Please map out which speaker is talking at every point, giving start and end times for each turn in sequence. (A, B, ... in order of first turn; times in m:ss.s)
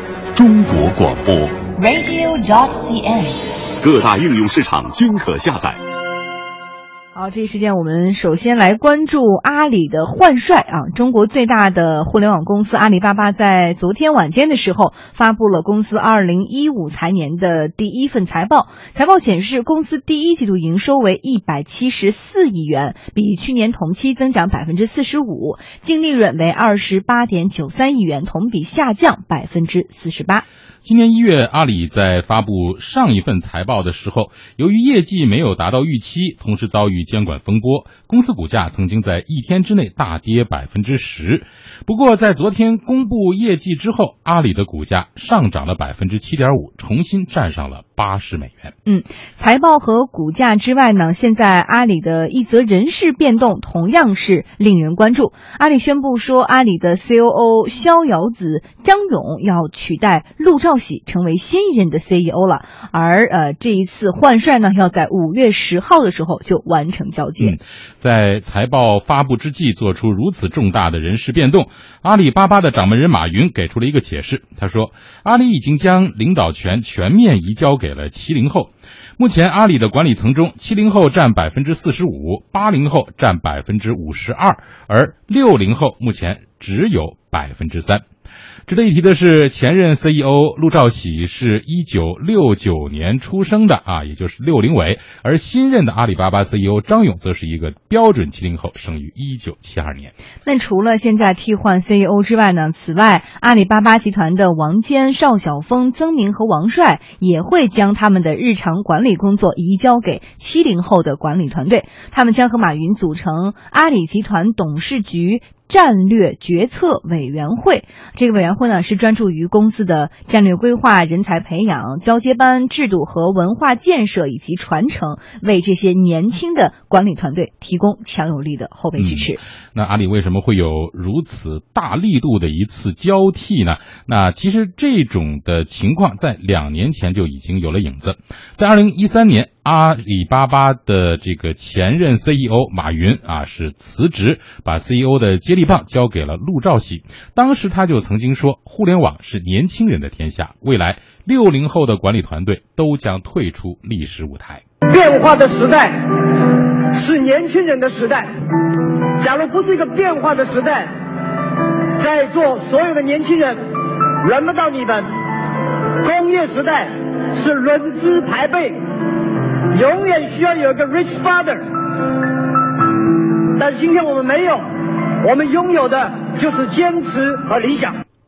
0:00.3-0:01.6 A
0:01.7-0:03.7 B
0:03.8-0:05.8 A
0:07.1-0:30.4 C
0:30.8-0:48.7 D
0:48.8-1:07.5 C
1:07.4-1:28.0 D
1:28.7-1:40.1 D
1:40.4-2:09.4 C
2:09.0-2:34.6 D
2:34.9-2:38.3 E
2:39.2-2:40.9 E
2:41.9-2:45.1 E
2:46.0-2:48.8 E
2:49.7-2:52.1 E
2:53.6-2:54.7 E
2:55.2-2:58.0 E